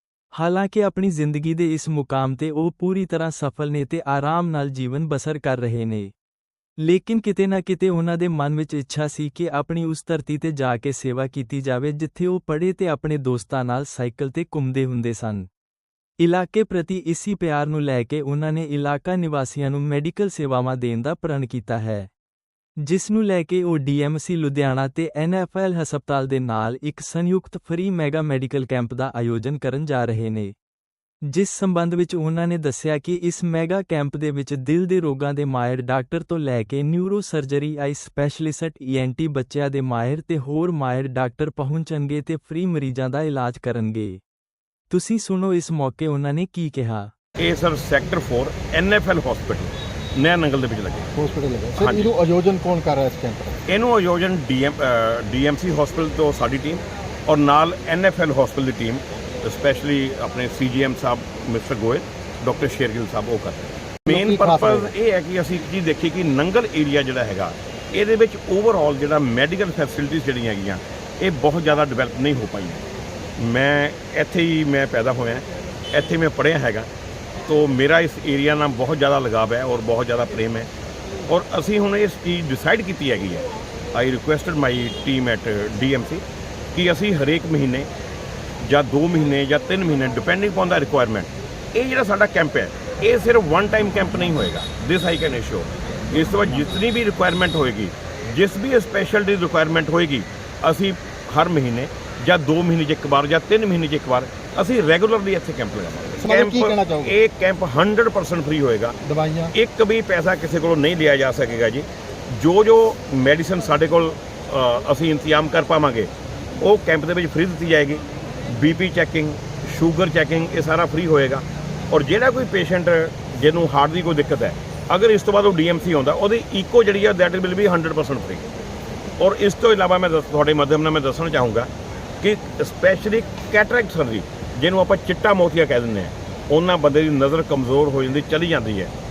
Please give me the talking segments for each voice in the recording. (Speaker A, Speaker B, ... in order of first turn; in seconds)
Speaker A: 0.3-6.1, 6.8-15.5, 16.2-22.1, 22.8-30.5, 31.2-44.2, 44.9-47.1
Speaker B: 47.4-51.1, 51.8-52.1, 53.7-72.8, 73.4-76.9, 77.5-80.7, 81.3-86.2, 86.7-87.9, 88.6-109.0, 109.5-116.1, 116.6-128.5, 129.2-131.7, 132.2-138.9
Speaker C: 51.1-53.6, 64.1-64.9, 106.2-107.2, 109.0-109.5